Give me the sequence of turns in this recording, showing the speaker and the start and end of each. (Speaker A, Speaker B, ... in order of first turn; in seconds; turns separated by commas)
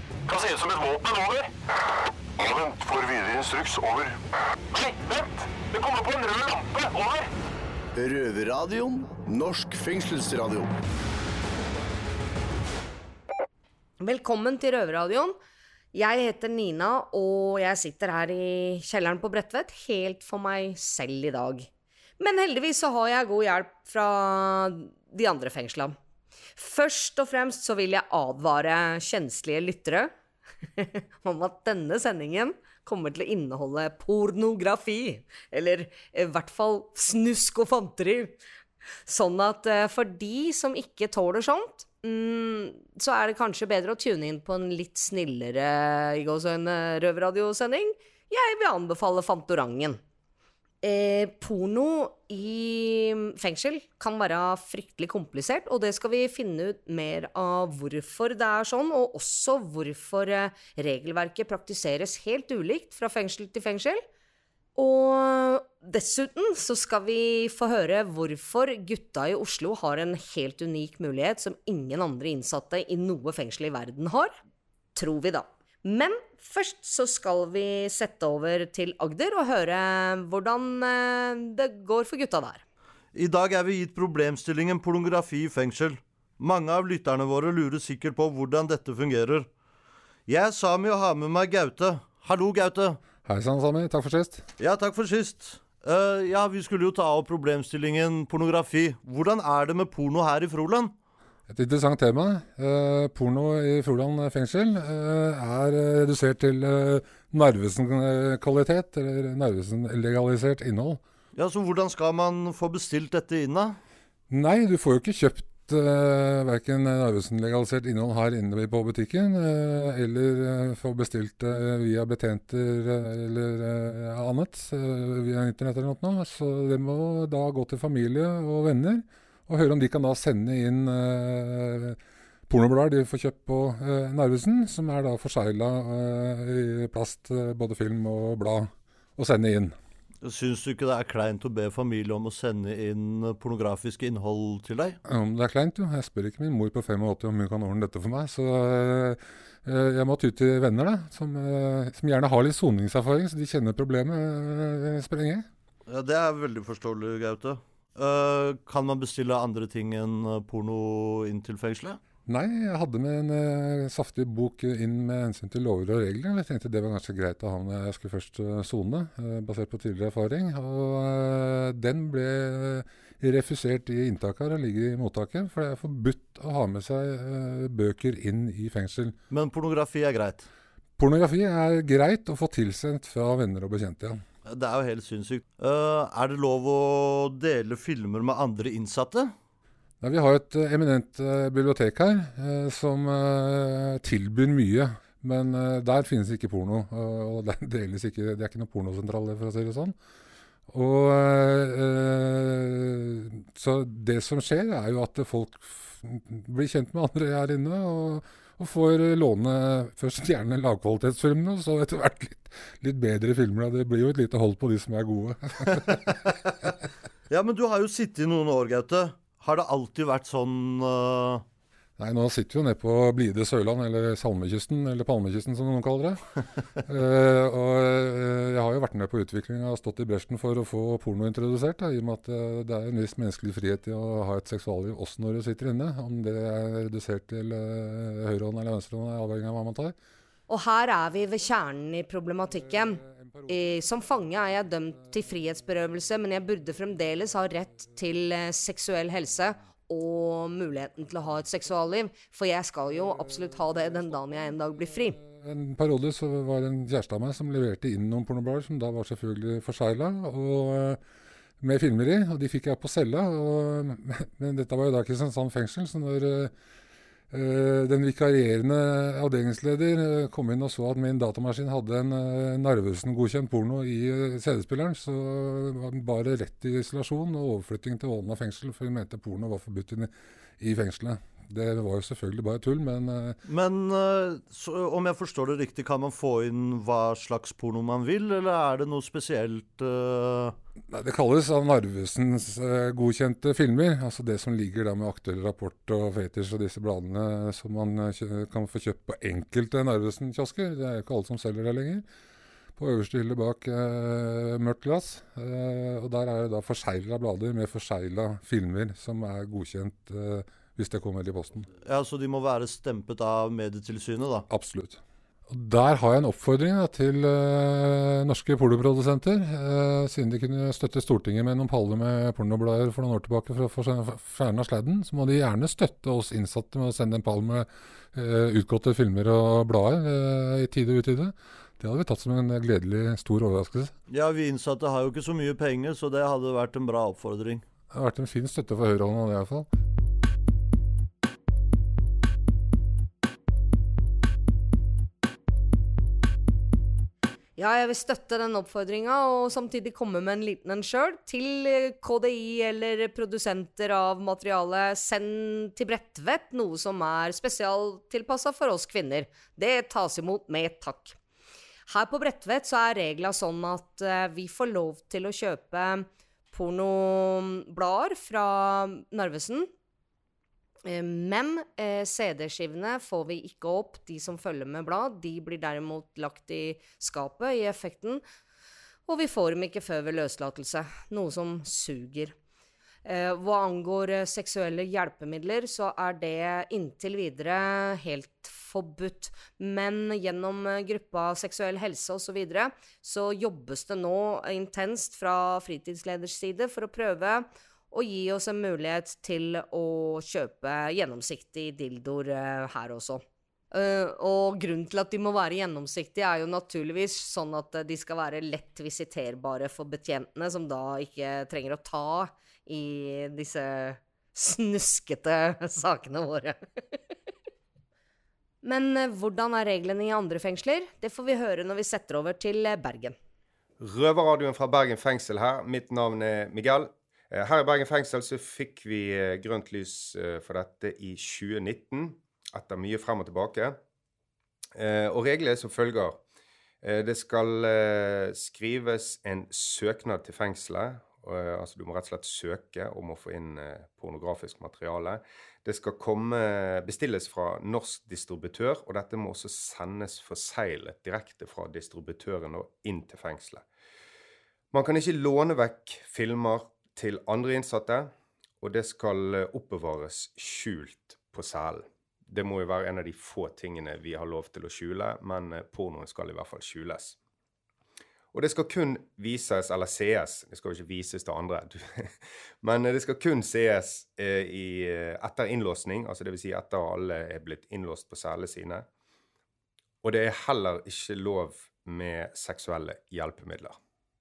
Speaker A: 0.3-1.5, Speaker A: 2.4-4.1, Speaker A: 4.7-7.3, Speaker B: 8.0-10.7, Speaker C: 14.0-15.4, Speaker C: 15.9-21.7, Speaker C: 22.2-25.9, Speaker C: 26.6-30.1, Speaker C: 30.8-38.3, Speaker C: 39.0-50.0, Speaker C: 50.8-64.0, Speaker C: 64.8-74.3, Speaker C: 74.9-82.6, Speaker D: 83.1-89.5, Speaker D: 90.3-93.0, Speaker E: 93.2-94.5, Speaker D: 94.6-100.9, Speaker E: 101.5-111.0, Speaker D: 111.3-113.8, Speaker E: 114.3-139.7, Speaker D: 140.2-145.0, Speaker E: 145.1-155.4, Speaker D: 155.9-162.0, Speaker E: 162.3-179.2, Speaker D: 179.3-180.5, Speaker E: 181.0-184.2, Speaker D: 184.4-189.3, Speaker E: 190.0-199.9, Speaker E: 200.7-216.2, Speaker D: 217.3-221.4, Speaker E: 222.0-226.2, Speaker E: 226.8-239.9, Speaker C: 240.5-255.2, Speaker E: 243.1-243.3, Speaker E: 255.2-261.0, Speaker E: 261.6-266.5, Speaker E: 267.3-283.4, Speaker D: 283.4-290.6, Speaker E: 290.9-302.0, Speaker E: 302.8-311.7, Speaker D: 311.8-314.5, Speaker E: 314.5-333.9, Speaker D: 334.1-337.6, Speaker E: 337.9-339.7, Speaker C: 347.6-361.1, Speaker C: 361.9-369.7, Speaker C: 370.8-378.2, Speaker C: 379.1-382.3, Speaker C: 383.0-416.6, Speaker C: 418.6-423.1, Speaker F: 423.8-433.8, Speaker F: 434.8-436.2, Speaker F: 436.8-453.6, Speaker F: 454.7-467.2, Speaker F: 468.3-478.9, Speaker F: 480.0-483.8